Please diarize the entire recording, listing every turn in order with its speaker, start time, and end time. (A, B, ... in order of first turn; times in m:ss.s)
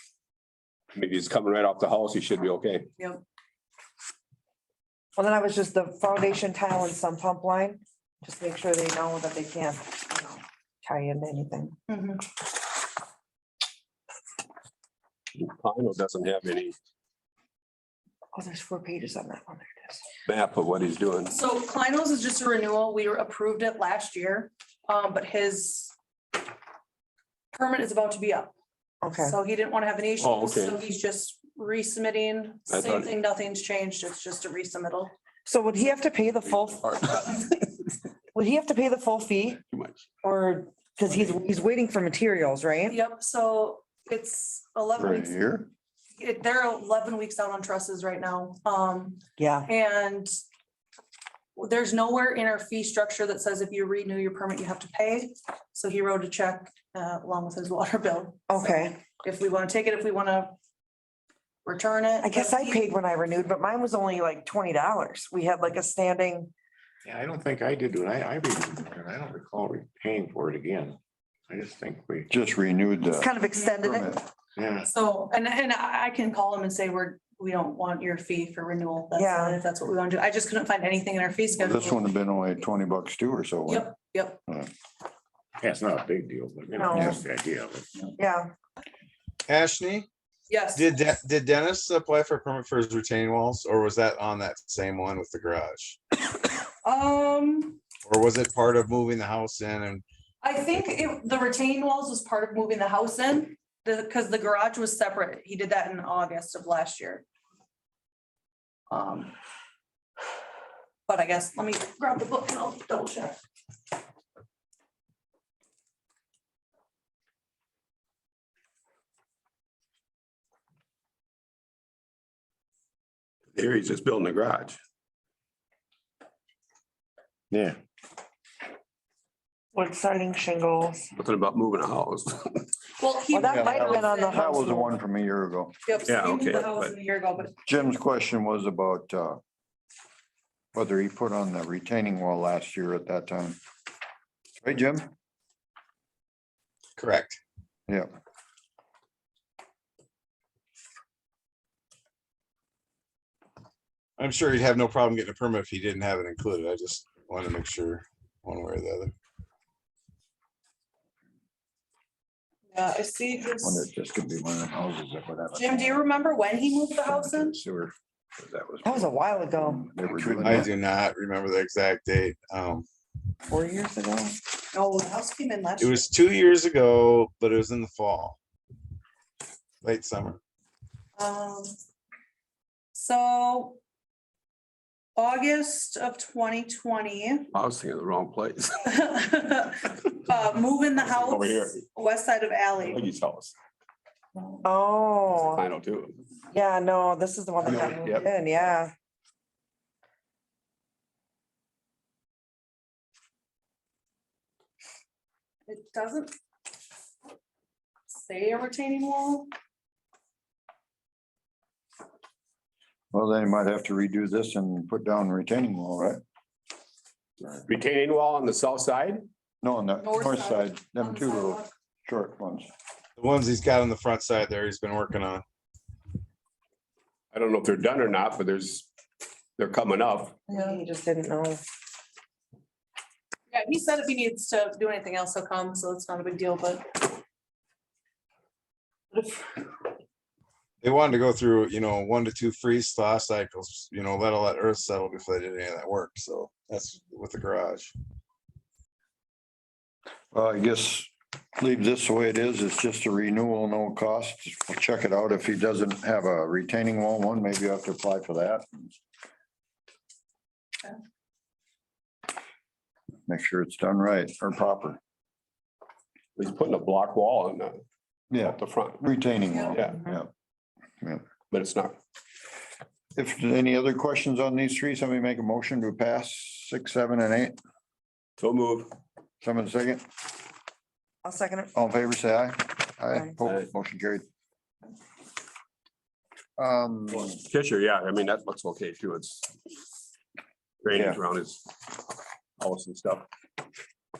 0:00.9-0:02.9 A
0:05.2-0:11.8 B
0:11.9-0:12.2 C
0:15.4-0:16.7 A
0:18.3-0:20.0 B
0:20.2-0:21.4 A
0:21.3-0:25.9 C
0:27.5-0:28.5 C
0:29.0-0:29.4 B
0:29.2-0:35.1 C
0:30.2-0:30.8 A
0:32.7-0:33.1 A
0:35.4-0:37.2 B
0:36.8-0:37.2 A
0:38.3-0:39.6 B
0:39.7-0:40.0 A
0:40.2-0:43.0 B
0:42.9-0:45.3 C
0:44.9-0:45.7 D
0:46.2-0:50.3 C
0:49.4-0:49.7 B
0:51.6-1:00.5 C
0:58.5-0:59.0 B
1:01.6-1:02.9 C
1:02.2-1:06.5 B
1:07.0-1:12.3 E
1:12.3-1:14.2 D
1:13.2-1:14.2 B
1:13.5-1:13.8 C
1:14.6-1:14.9 E
1:14.8-1:22.0 C
1:19.2-1:19.6 B
1:21.6-1:23.9 D
1:23.7-1:24.4 C
1:25.6-1:28.0 E
1:26.7-1:27.2 B
1:26.9-1:27.2 D
1:28.2-1:28.5 B
1:29.5-1:30.1 F
1:30.5-1:30.9 C
1:30.7-1:36.0 F
1:36.8-1:37.8 C
1:38.0-1:40.0 F
1:40.4-1:47.2 C
1:48.9-1:49.3 C
1:51.1-1:53.4 C
2:03.5-2:04.8 A
2:07.5-2:07.8 E
2:09.7-2:11.1 B
2:11.1-2:12.6 A
2:13.0-2:14.7 C
2:13.3-2:15.0 B
2:13.4-2:15.8 D
2:15.8-2:17.5 C
2:16.0-2:16.9 A
2:17.6-2:19.4 D
2:20.7-2:23.6 D
2:24.6-2:25.1 D
2:27.0-2:27.4 F
2:34.2-2:39.1 F
2:42.7-2:43.9 C
2:43.6-2:46.0 D
2:45.5-2:47.6 C
2:47.0-2:50.7 D
2:48.8-2:49.9 B
2:50.1-2:52.8 F
2:53.5-2:54.4 B
2:54.7-2:56.1 C
2:55.8-2:58.4 F
2:59.8-3:00.4 F
3:01.2-3:01.7 C
3:02.9-3:03.8 C
3:05.2-3:07.5 C
3:07.5-3:08.9 A
3:08.8-3:13.0 C
3:11.0-3:11.8 A
3:12.8-3:13.5 A
3:14.6-3:15.6 B
3:15.2-3:16.2 A
3:16.5-3:18.9 B
3:17.6-3:18.3 A
3:25.7-3:26.3 C
3:28.1-3:29.5 C
3:33.1-3:36.2 D
3:37.7-3:39.3 A
3:39.6-3:42.7 D
3:40.0-3:41.7 C
3:43.2-3:45.4 F
3:47.3-3:48.9 A
3:49.6-3:50.4 A
3:50.5-3:51.6 B
3:50.5-3:50.8 C
3:53.5-3:57.0 C
3:59.1-3:59.4 B
4:00.8-4:07.9 F
4:10.3-4:18.9 D
4:23.3-4:25.0 D
4:26.4-4:27.8 A
4:28.3-4:30.3 D
4:28.4-4:29.0 A
4:29.5-4:29.8 C
4:29.7-4:30.0 A
4:31.5-4:32.0 A
4:33.1-4:37.6 D
4:38.4-4:38.9 A
4:39.4-4:40.0 D
4:41.2-4:41.7 B
4:41.7-4:44.2 D
4:46.6-4:47.4 D
4:47.2-4:49.5 A
4:50.8-4:51.7 A
4:50.9-4:51.2 D
4:52.6-4:53.2 A